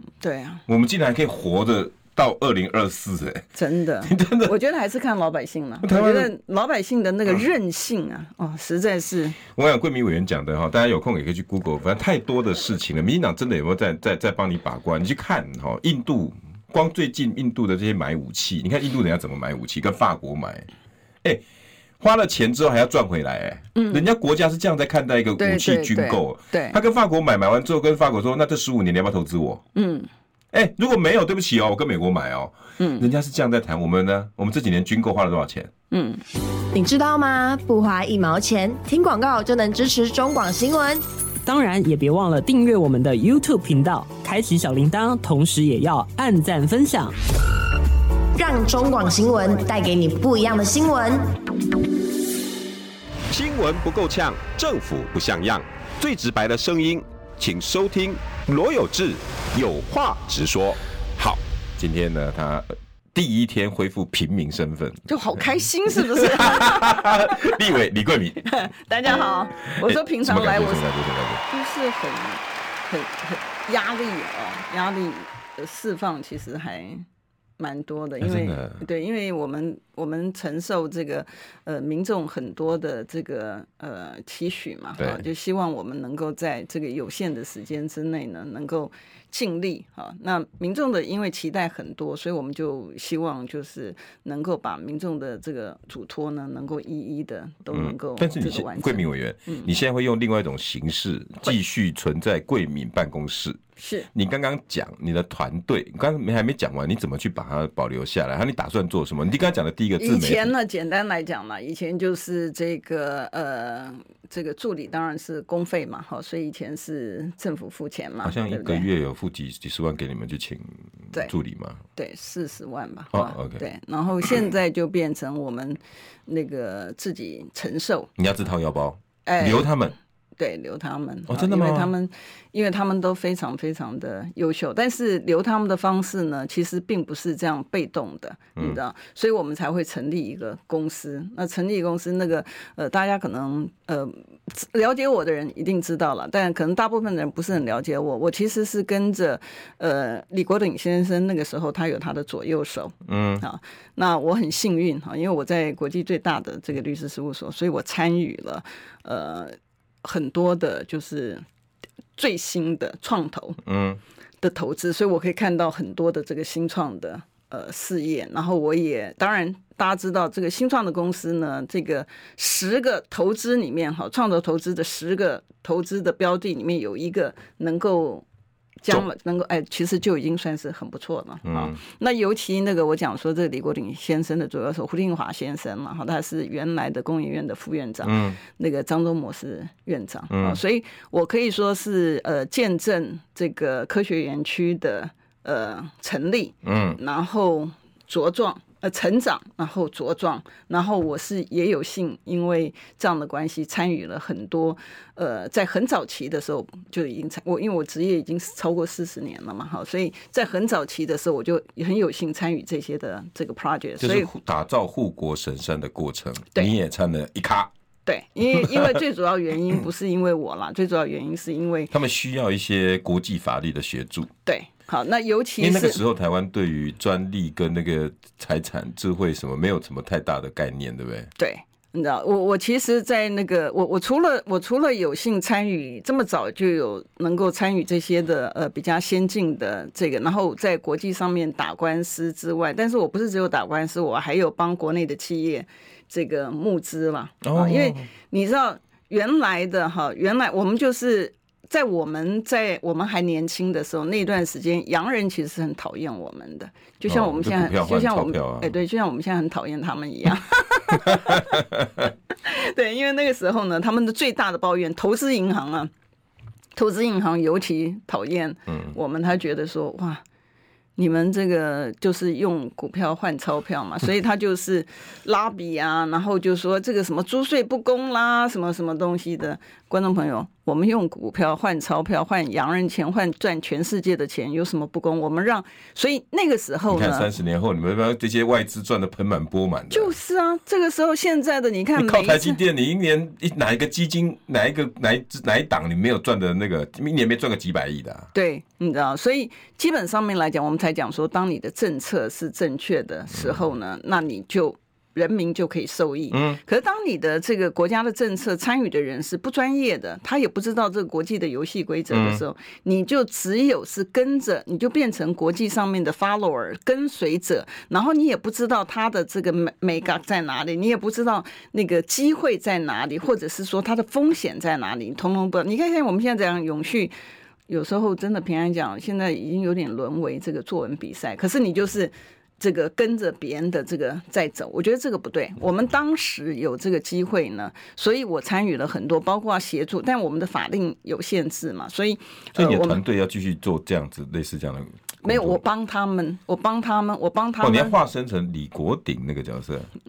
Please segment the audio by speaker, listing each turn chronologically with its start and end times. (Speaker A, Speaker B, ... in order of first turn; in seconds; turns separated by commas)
Speaker A: 0.2-0.6, Speaker B: 0.7-3.5, Speaker A: 3.5-9.4, Speaker B: 4.0-4.5, Speaker B: 5.8-6.3, Speaker B: 9.4-20.7, Speaker B: 22.0-29.6, Speaker A: 23.7-24.1, Speaker A: 25.4-26.8, Speaker A: 29.7-30.1, Speaker B: 30.5-35.7, Speaker A: 32.8-33.1, Speaker A: 35.9-36.2, Speaker C: 36.7-41.0, Speaker D: 41.5-47.1, Speaker C: 48.4-51.4, Speaker E: 53.3-61.4, Speaker B: 61.8-65.1, Speaker A: 65.1-67.4, Speaker B: 65.9-68.4, Speaker A: 68.4-70.9, Speaker B: 69.8-71.4, Speaker A: 71.5-77.0, Speaker A: 77.6-99.7, Speaker B: 78.2-78.8, Speaker B: 85.0-85.2, Speaker B: 97.7-103.6, Speaker A: 103.8-104.1, Speaker B: 104.1-110.5, Speaker A: 110.0-118.9, Speaker B: 118.2-121.8, Speaker A: 121.9-128.1, Speaker B: 123.1-123.6, Speaker B: 128.2-129.9, Speaker A: 129.2-129.7, Speaker A: 130.4-161.4, Speaker B: 131.3-131.9, Speaker B: 153.1-153.4, Speaker A: 162.2-163.6, Speaker B: 163.6-164.0, Speaker A: 164.4-178.2, Speaker A: 178.8-214.3, Speaker B: 181.4-181.8, Speaker B: 188.0-188.4, Speaker B: 190.3-190.6, Speaker B: 196.6-197.0, Speaker B: 214.0-217.7, Speaker A: 218.1-221.9, Speaker B: 221.9-224.3, Speaker A: 224.4-226.0, Speaker B: 225.6-231.3, Speaker A: 231.4-261.7, Speaker B: 247.4-248.1, Speaker B: 257.1-258.7, Speaker B: 261.1-261.8, Speaker A: 262.4-265.9, Speaker A: 266.7-270.2, Speaker A: 271.0-287.3, Speaker B: 286.9-290.1, Speaker A: 289.9-292.6, Speaker B: 291.9-298.3, Speaker A: 298.3-327.1, Speaker B: 306.3-306.6, Speaker B: 312.1-312.4, Speaker A: 327.7-343.0, Speaker B: 342.6-345.6, Speaker A: 345.2-348.0, Speaker B: 347.6-349.9